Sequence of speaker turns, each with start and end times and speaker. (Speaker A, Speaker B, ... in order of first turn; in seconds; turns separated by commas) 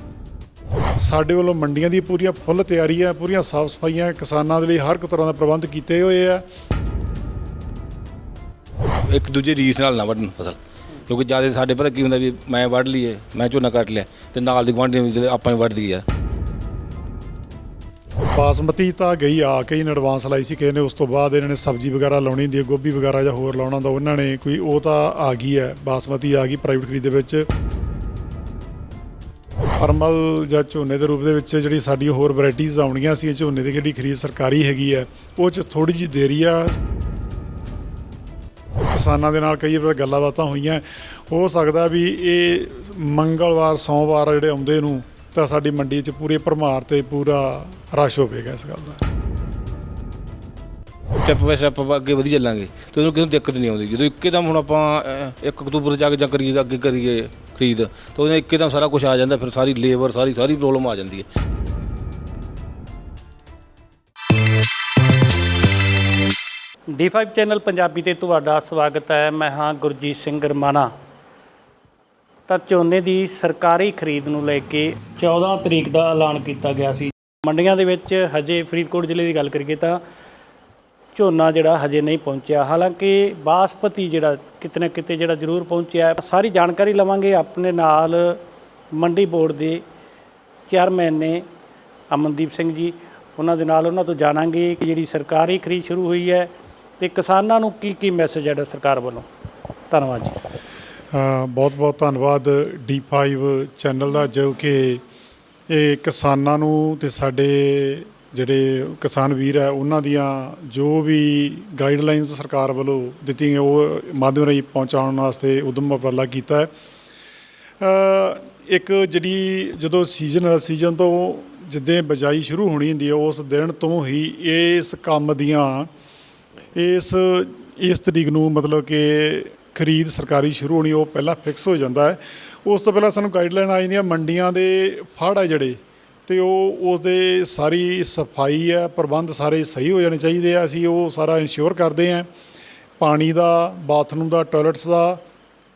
Speaker A: 1.0-6.4, Speaker B: 9.1-10.6, Speaker B: 11.1-16.0, Speaker A: 18.3-27.4, Speaker A: 29.8-36.8, Speaker A: 38.9-49.1, Speaker B: 51.2-61.2, Speaker C: 66.9-70.9, Speaker C: 72.5-80.0, Speaker C: 81.2-88.4, Speaker C: 88.9-89.8, Speaker C: 90.7-91.4, Speaker C: 92.1-99.2, Speaker C: 99.9-100.3, Speaker A: 101.1-105.0, Speaker A: 105.7-116.7, Speaker A: 117.8-125.9, Speaker A: 126.8-142.3, Speaker A: 143.0-145.2